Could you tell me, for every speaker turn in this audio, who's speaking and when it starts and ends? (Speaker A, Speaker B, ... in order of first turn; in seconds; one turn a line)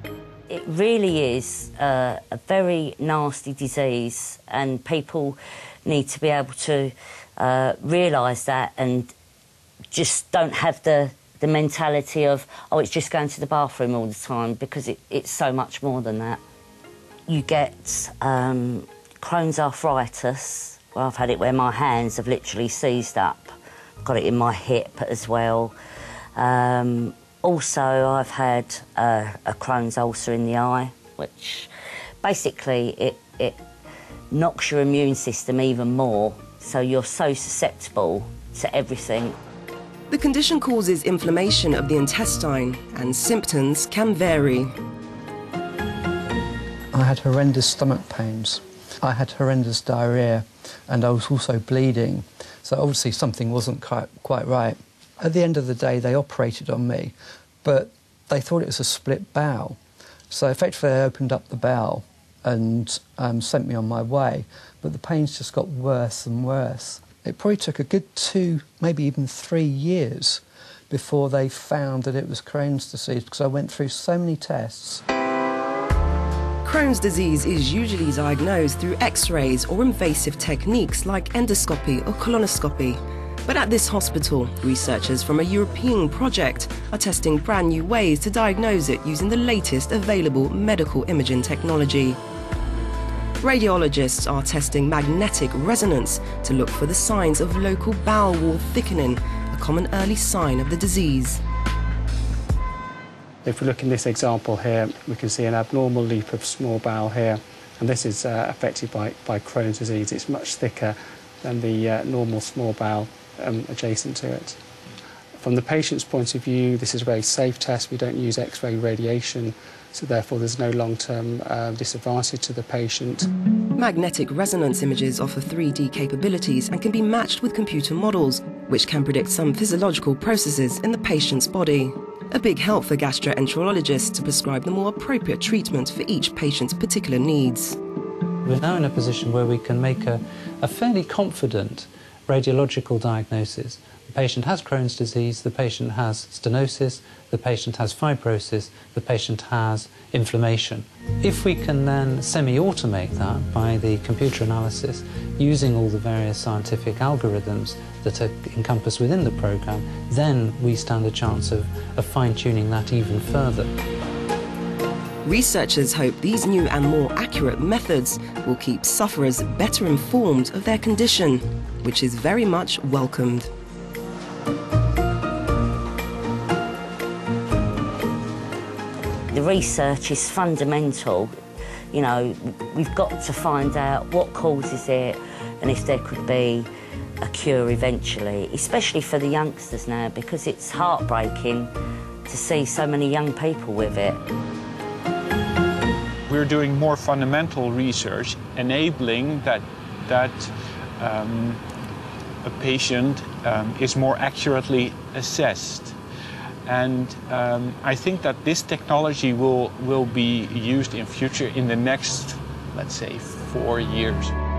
Speaker A: 0.5-9.1
Speaker A: 9.9-16.4
Speaker A: 17.3-25.7
Speaker A: 26.4-31.7
Speaker A: 32.2-33.6
Speaker A: 34.3-39.4
Speaker B: 40.1-44.7
Speaker C: 46.9-59.8
Speaker C: 60.3-75.0
Speaker B: 76.6-92.2
Speaker B: 93.4-101.4
Speaker D: 103.4-114.6
Speaker D: 115.4-123.3
Speaker B: 123.8-137.8
Speaker E: 138.4-163.7
Speaker B: 165.2-173.5
Speaker A: 179.3-181.3
Speaker A: 181.9-186.7
Speaker A: 187.2-191.7
Speaker A: 192.3-194.2
Speaker F: 196.3-201.6
Speaker F: 202.4-205.9
Speaker F: 206.7-214.3